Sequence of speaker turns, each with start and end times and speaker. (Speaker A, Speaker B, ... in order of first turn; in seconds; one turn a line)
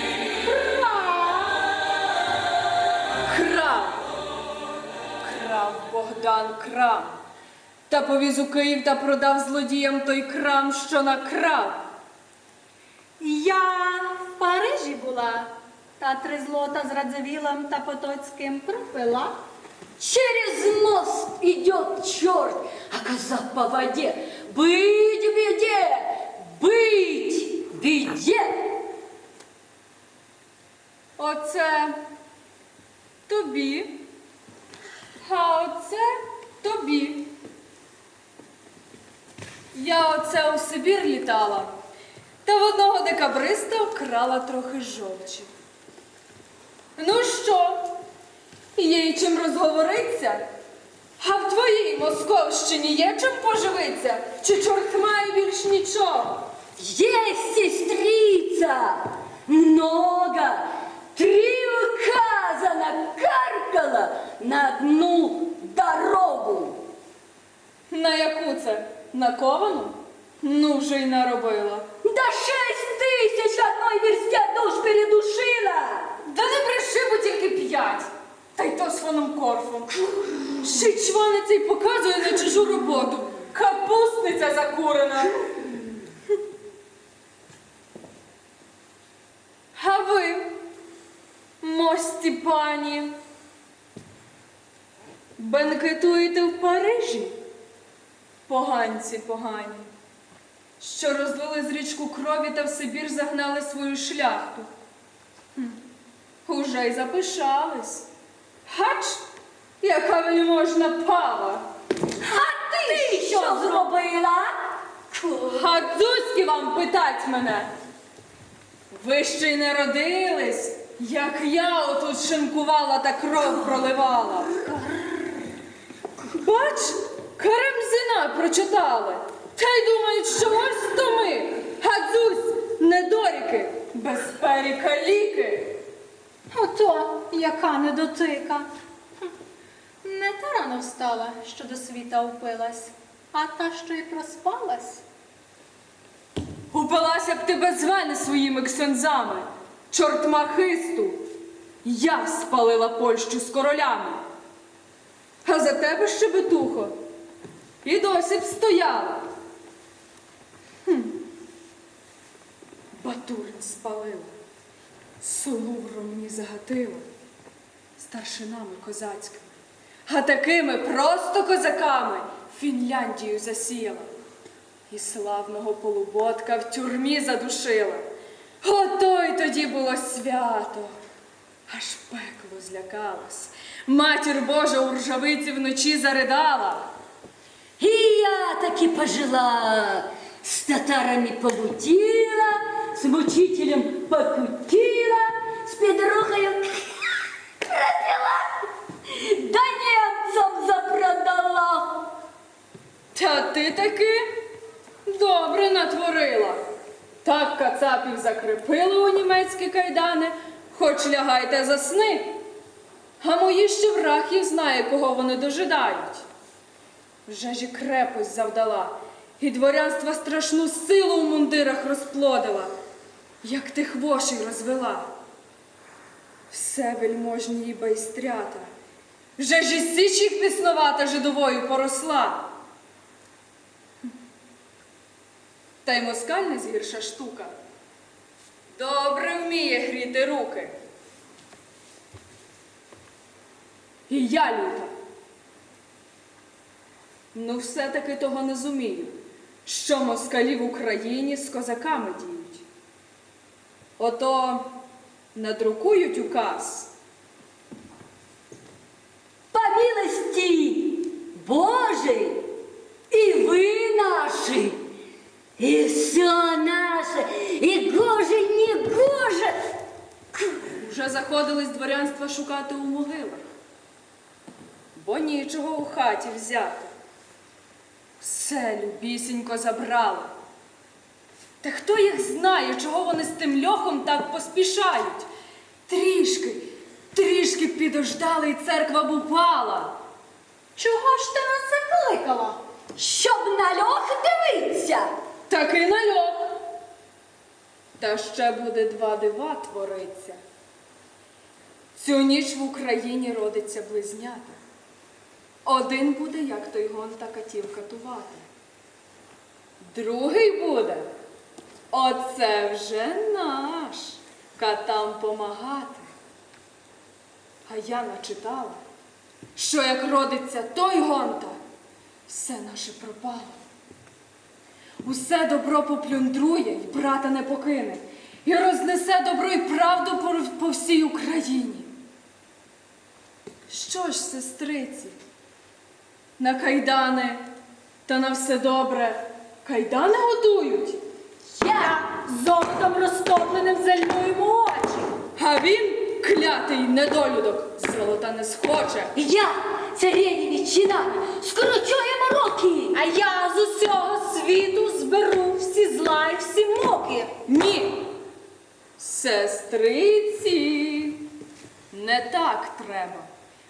Speaker A: 0.4-1.6
Speaker B: 3.2-4.0
Speaker B: 5.2-7.2
Speaker B: 7.9-11.8
Speaker A: 13.2-19.4
Speaker C: 20.0-28.8
Speaker B: 31.2-32.0
Speaker B: 33.3-34.1
Speaker B: 35.2-37.3
Speaker B: 39.7-41.7
Speaker B: 42.4-45.5
Speaker B: 47.0-48.0
Speaker B: 48.8-50.5
Speaker B: 51.2-56.5
Speaker C: 56.8-66.8
Speaker B: 67.9-71.9
Speaker C: 72.0-76.1
Speaker B: 76.2-85.4
Speaker B: 89.7-90.5
Speaker B: 91.6-93.1
Speaker B: 95.4-97.4
Speaker B: 98.5-99.9
Speaker B: 100.8-104.7
Speaker B: 106.5-108.1
Speaker B: 108.7-109.2
Speaker B: 109.8-111.7
Speaker C: 112.2-114.5
Speaker A: 112.7-113.9
Speaker C: 115.1-115.6
Speaker B: 115.5-117.7
Speaker B: 118.9-124.5
Speaker B: 126.3-135.8
Speaker A: 136.5-138.7
Speaker A: 140.0-145.0
Speaker B: 146.7-151.2
Speaker B: 151.8-154.2
Speaker B: 155.4-157.0
Speaker B: 157.8-159.3
Speaker B: 160.8-161.2
Speaker B: 163.0-164.3
Speaker B: 165.2-167.1
Speaker B: 168.0-169.5
Speaker B: 170.1-174.1
Speaker B: 174.9-178.0
Speaker B: 178.6-180.9
Speaker B: 181.7-186.9
Speaker C: 187.8-198.5
Speaker C: 199.1-202.1
Speaker B: 203.1-204.3
Speaker B: 205.1-206.6
Speaker B: 207.2-212.4
Speaker B: 213.2-216.2
Speaker B: 217.3-222.7
Speaker B: 223.4-225.1
Speaker B: 226.5-228.7
Speaker B: 229.4-232.5
Speaker B: 235.8-237.5
Speaker B: 238.7-240.7
Speaker B: 244.1-244.9
Speaker B: 247.3-252.7
Speaker B: 254.0-254.7
Speaker B: 255.3-256.9
Speaker C: 259.5-262.5
Speaker C: 263.1-264.8
Speaker C: 265.6-269.6
Speaker B: 270.8-273.4
Speaker B: 274.9-276.9
Speaker B: 278.2-280.3
Speaker B: 281.6-285.3
Speaker B: 285.9-290.0
Speaker A: 290.8-292.6
Speaker C: 293.0-295.1
Speaker B: 295.5-296.6
Speaker B: 298.0-300.4
Speaker B: 301.9-304.6
Speaker B: 305.6-308.5
Speaker B: 309.8-311.1
Speaker B: 311.9-316.1
Speaker B: 317.7-318.8
Speaker B: 319.6-321.6
Speaker B: 322.3-323.6
Speaker B: 325.0-331.9
Speaker B: 333.7-335.1
Speaker B: 336.4-337.4
Speaker B: 338.1-341.0
Speaker C: 341.6-342.0
Speaker A: 341.8-345.1
Speaker B: 345.4-349.1
Speaker C: 349.2-353.0
Speaker A: 352.9-357.3
Speaker B: 357.5-358.2
Speaker B: 359.0-361.2
Speaker B: 361.9-363.3